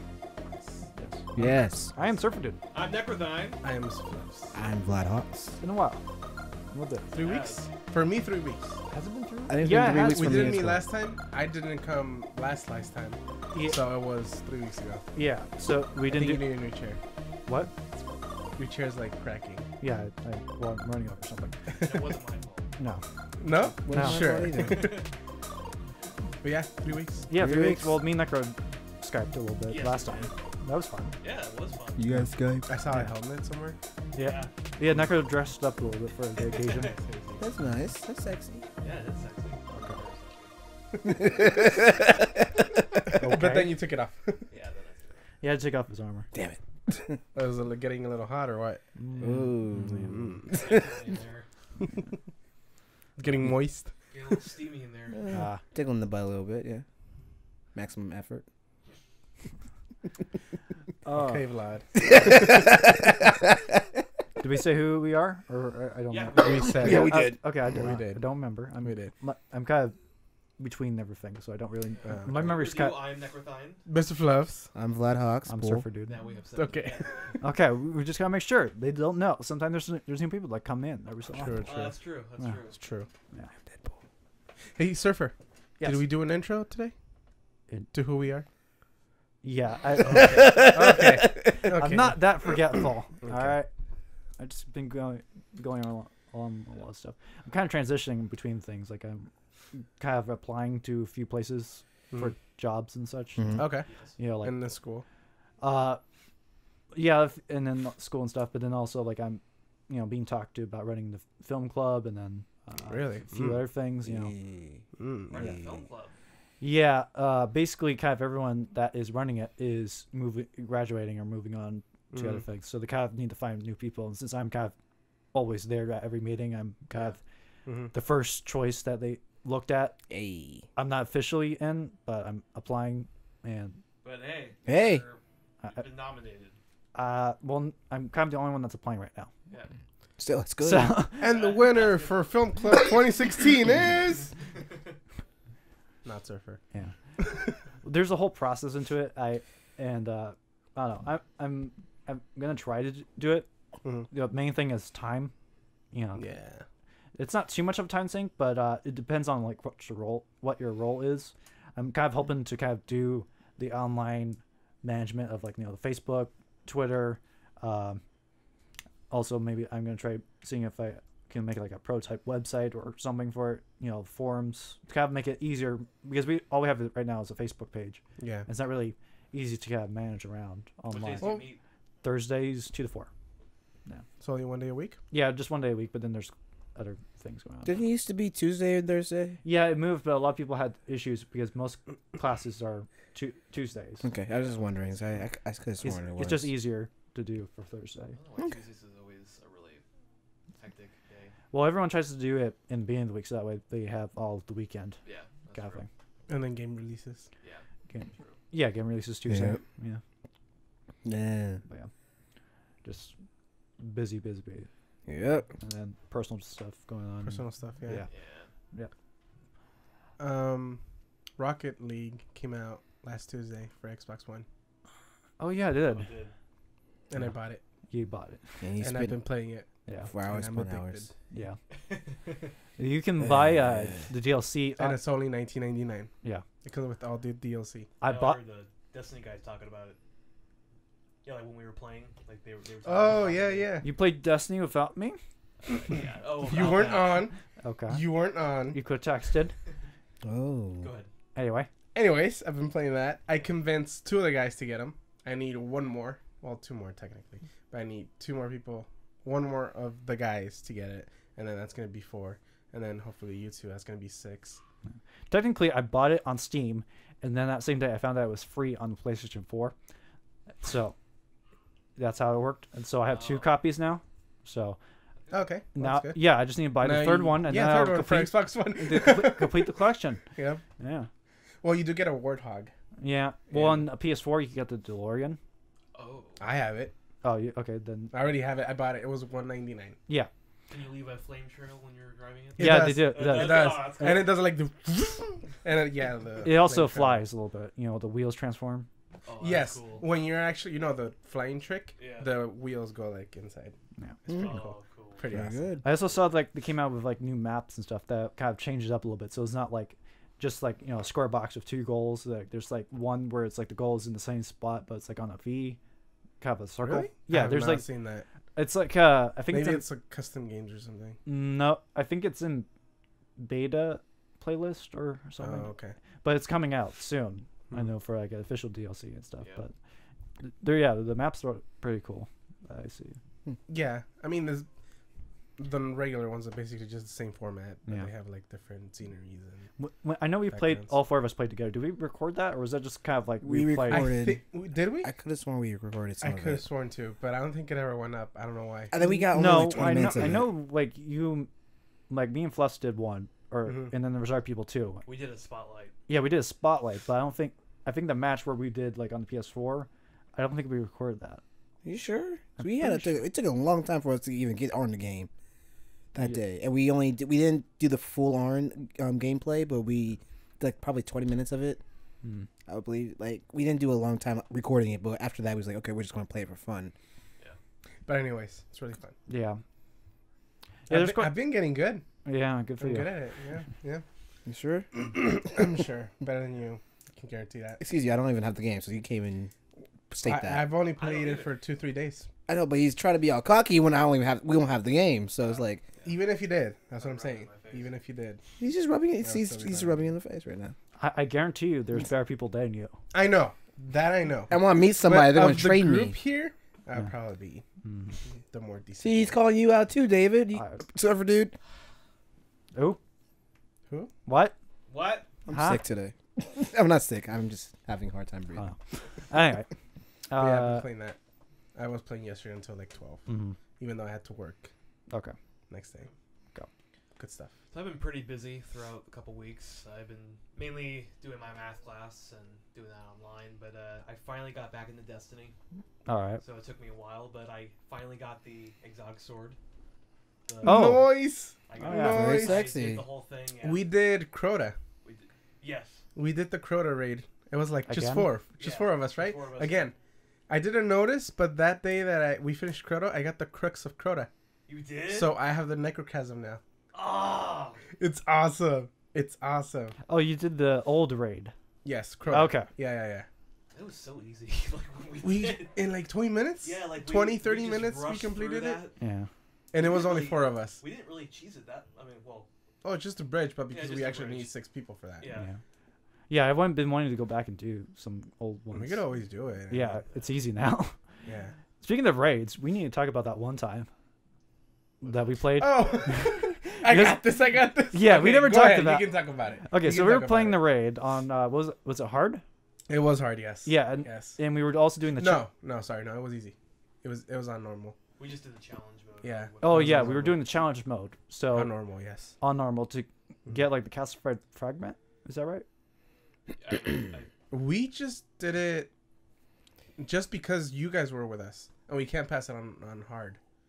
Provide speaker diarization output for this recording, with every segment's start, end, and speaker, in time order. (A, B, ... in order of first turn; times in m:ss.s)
0:01.0-0:02.6 A
0:01.4-0:01.9 B
0:02.7-0:03.6 C
0:03.6-0:04.6 D
0:04.5-0:05.6 B
0:05.6-0:06.0 A
0:06.7-0:07.1 A
0:07.1-0:08.8 D
0:07.2-0:07.7 C
0:08.9-0:10.7 A
0:09.5-0:10.8 B
0:09.9-0:15.1 D
0:13.5-0:13.8 A
0:15.2-0:16.6 A
0:16.1-0:17.0 D
0:18.6-0:19.6 D
0:19.8-0:21.6 A
0:21.7-0:22.1 D
0:21.8-0:22.7 C
0:22.8-0:23.0 A
0:23.4-0:25.0 D
0:23.7-0:25.0 B
0:23.9-0:24.4 A
0:24.6-0:25.1 C
0:26.4-0:27.3 D
0:27.3-0:31.1 A
0:27.3-0:28.0 B
0:29.7-0:30.3 C
0:31.2-0:32.0 C
0:32.0-0:32.8 B
0:32.7-0:33.8 D
0:34.1-0:37.0 A
0:34.2-0:34.5 C
0:36.4-0:37.0 C
0:36.9-0:37.4 D
0:37.4-0:38.6 B
0:38.8-0:40.5 C
0:39.7-0:40.0 A
0:41.0-0:42.6 B
0:43.1-0:44.5 D
0:43.2-0:43.8 A
0:44.5-0:45.2 C
0:45.4-0:46.3 A
0:46.3-0:47.2 B
0:47.4-0:49.3 D
0:49.0-0:50.2 A
0:49.2-0:50.7 B
0:49.8-0:50.6 D
0:50.5-0:51.5 C
0:53.2-0:53.9 D
0:54.1-0:55.2 C
0:55.1-0:56.8 B
0:55.3-0:55.6 A
0:57.8-0:58.4 B
1:01.0-1:01.5 A
1:01.1-1:02.7 D
1:02.1-1:03.8 B
1:04.4-1:10.0 A
1:06.1-1:07.0 C
1:06.4-1:08.3 D
1:06.8-1:07.4 B
1:08.8-1:09.1 D
1:10.6-1:13.0 A
1:11.9-1:13.8 C
1:12.0-1:12.7 D
1:13.9-1:14.7 D
1:14.8-1:15.8 B
1:15.5-1:16.2 A
1:16.1-1:17.3 C
1:16.6-1:17.3 D
1:17.4-1:21.7 A
1:21.3-1:22.0 D
1:21.6-1:22.8 C
1:22.7-1:23.1 D
1:23.3-1:23.6 A
1:24.8-1:26.9 D
1:27.9-1:28.5 D
1:29.4-1:31.0 A
1:30.0-1:32.3 D
1:30.3-1:31.4 B
1:31.6-1:33.7 A
1:33.2-1:33.6 D
1:34.4-1:44.5 A
1:43.4-1:43.7 B
1:43.6-1:43.9 D
1:43.9-1:44.2 C
1:44.4-1:45.0 D
1:45.6-1:46.0 A
1:46.9-1:54.3 A
1:52.9-1:53.6 D
1:54.0-1:54.8 B
1:55.0-1:55.5 D
1:55.3-1:56.1 C
1:55.4-1:55.8 B
1:56.6-2:04.8 A
2:02.1-2:02.4 D
2:05.3-2:07.2 A
2:07.7-2:07.9 D
2:07.9-2:10.0 A
2:10.1-2:10.6 B
2:10.8-2:13.8 A
2:14.0-2:16.6 C
2:14.7-2:15.0 B
2:17.0-2:19.3 A
2:20.2-2:21.0 B
2:20.6-2:21.2 A
2:21.2-2:24.4 D
2:21.3-2:22.2 C
2:26.0-2:26.6 D
2:27.2-2:27.6 D
2:27.8-2:33.5 A
2:33.8-2:34.1 D
2:34.1-2:35.3 A
2:35.9-2:36.3 A
2:36.2-2:36.6 D
2:37.2-2:48.0 A
2:49.1-3:01.4 A
2:58.2-2:58.5 D
3:00.9-3:01.6 C
3:01.2-3:01.5 D
3:02.0-3:03.1 A
3:04.2-3:05.0 D
3:05.1-3:07.7 A
3:07.7-3:09.4 B
3:09.4-3:14.1 A
3:14.0-3:16.5 B
3:15.8-3:18.2 A
3:18.1-3:19.8 C
3:20.6-3:21.3 C
3:21.5-3:25.0 A
3:25.0-3:25.9 C
3:25.5-3:25.9 A
3:26.3-3:27.3 D
3:27.9-3:30.0 A
3:29.3-3:29.6 B
3:31.0-3:31.6 B
3:32.8-3:33.2 A
3:33.8-3:34.7 A
3:35.1-3:35.5 B
3:35.6-3:38.1 A
3:37.3-3:38.1 D
3:38.1-3:38.5 C
3:40.2-3:40.8 D
3:41.4-3:44.5 D
3:45.4-3:46.1 A
3:45.9-3:46.3 C
3:47.1-3:47.6 D
3:47.9-3:48.6 A
3:48.6-3:49.2 B
3:48.8-3:51.1 D
3:50.1-3:51.1 B
3:51.3-3:51.6 A
3:51.7-3:52.5 C
3:52.8-3:55.0 A
3:53.2-3:54.1 B
3:54.8-3:56.1 D
3:56.6-3:57.9 D
3:58.0-3:58.4 A
3:58.0-4:00.0 C
4:01.2-4:03.7 C
4:02.8-4:03.9 D
4:03.8-4:05.2 A
4:05.6-4:07.3 C
4:06.4-4:07.4 D
4:07.6-4:08.0 A
4:07.9-4:08.8 D
4:08.7-4:09.6 A
4:10.2-4:10.9 B
4:10.8-4:11.1 C
4:11.4-4:11.7 A
4:11.9-4:24.6 D
4:25.3-4:29.7 A
4:30.6-4:31.0 A
4:32.0-4:34.8 A
4:33.1-4:33.5 C
4:35.3-4:36.3 D
4:35.8-4:40.2 A
4:36.8-4:39.8 D
4:40.4-4:40.6 D
4:40.8-4:41.1 A
4:41.6-4:42.7 D
4:43.0-4:45.4 A
4:43.5-4:43.8 D
4:45.9-4:46.6 C
4:46.4-4:46.9 D
4:47.2-4:48.1 A
4:48.1-4:50.0 D
4:50.7-4:54.3 C
4:52.6-4:57.2 D
4:52.6-4:54.2 A
4:56.4-4:58.9 A
4:59.3-5:00.0 C
4:59.4-5:05.8 D
5:02.0-5:02.3 C
5:04.3-5:05.3 C
5:05.3-5:05.8 B
5:05.8-5:15.8 A
5:16.4-5:17.9 A
5:16.8-5:18.3 D
5:18.6-5:19.8 A
5:19.5-5:21.2 D
5:21.3-5:22.7 A
5:23.4-5:25.7 A
5:25.4-5:26.0 D
5:26.2-5:29.7 A
5:30.4-5:33.2 A
5:33.7-5:34.7 D
5:35.6-5:39.7 D
5:39.8-5:44.1 A
5:40.5-5:40.9 D
5:43.4-5:44.4 B
5:43.9-5:45.1 D
5:45.0-5:46.6 B
5:46.2-5:48.9 D
5:48.9-5:50.5 B
5:49.0-5:51.5 A
5:49.5-5:50.1 D
5:52.1-5:55.0 A
5:53.7-5:53.9 D
5:55.1-5:56.0 C
5:56.1-6:01.4 A
6:01.8-6:05.3 B
6:02.6-6:03.2 A
6:06.1-6:11.8 B
6:12.2-6:12.5 A
6:12.7-6:16.9 B
6:18.1-6:19.2 D
6:19.3-6:19.6 A
6:20.9-6:22.0 D
6:20.9-6:21.4 A
6:22.2-6:23.1 A
6:22.8-6:24.0 D
6:24.5-6:24.9 B
6:24.9-6:27.8 D
6:27.8-6:29.5 B
6:30.1-6:30.7 B
6:30.3-6:32.3 D
6:31.0-6:31.5 C
6:32.5-6:35.8 B
6:36.0-6:38.4 D
6:37.0-6:37.9 C
6:38.6-6:40.7 B
6:39.2-6:40.1 D
6:41.0-6:42.9 A
6:43.1-6:47.6 D
6:44.5-6:46.2 B
6:47.8-6:48.2 A
6:48.4-6:49.4 D
6:49.0-6:51.6 B
6:50.5-6:50.8 A
6:52.7-6:53.0 A
6:54.3-6:54.5 A
6:54.9-6:55.3 C
6:55.5-6:58.7 B
6:55.5-6:55.8 A
6:58.6-6:59.7 A
7:00.3-7:00.9 A
7:00.4-7:01.2 D
7:01.8-7:03.3 D
7:03.3-7:03.6 A
7:03.8-7:04.7 D
7:05.1-7:05.4 A
7:05.7-7:06.1 D
7:07.2-7:07.5 D
7:07.7-7:15.6 C
7:16.1-7:16.4 A
7:16.4-7:19.6 C
7:20.5-7:21.0 C
7:20.6-7:22.7 D
7:20.6-7:21.2 A
7:21.7-7:23.8 C
7:21.8-7:22.2 A
7:21.9-7:23.0 B
7:23.6-7:24.8 D
7:25.0-7:26.0 C
7:26.2-7:29.9 D
7:27.9-7:28.3 A
7:28.6-7:29.9 C
7:30.5-7:34.3 D
7:34.7-7:35.3 C
7:35.1-7:36.6 D
7:36.9-7:37.9 C
7:38.0-7:40.0 D
7:40.1-7:41.5 A
7:41.8-7:43.3 D
7:42.3-7:42.7 A
7:43.7-7:45.8 C
7:45.2-7:48.8 D
7:46.6-7:49.0 C
7:49.0-7:49.3 A
7:49.7-7:50.8 D
7:49.8-7:52.5 C
7:52.8-7:55.3 D
7:53.7-7:54.5 C
7:55.2-7:55.5 C
7:55.3-7:55.6 A
7:56.3-7:59.0 A
7:58.7-8:00.0 D
7:59.7-8:01.0 A
8:01.3-8:01.5 D
8:01.8-8:03.9 A
8:05.0-8:07.2 A
8:05.6-8:10.7 D
8:07.9-8:09.2 A
8:09.7-8:12.4 A
8:12.9-8:14.4 D
8:13.6-8:15.4 A
8:15.2-8:18.0 D
8:18.2-8:20.1 C
8:19.2-8:20.4 D
8:19.6-8:21.7 A
8:21.5-8:22.4 D
8:22.4-8:25.6 A
8:26.6-8:27.3 C
8:27.5-8:28.9 D
8:30.0-8:33.4 D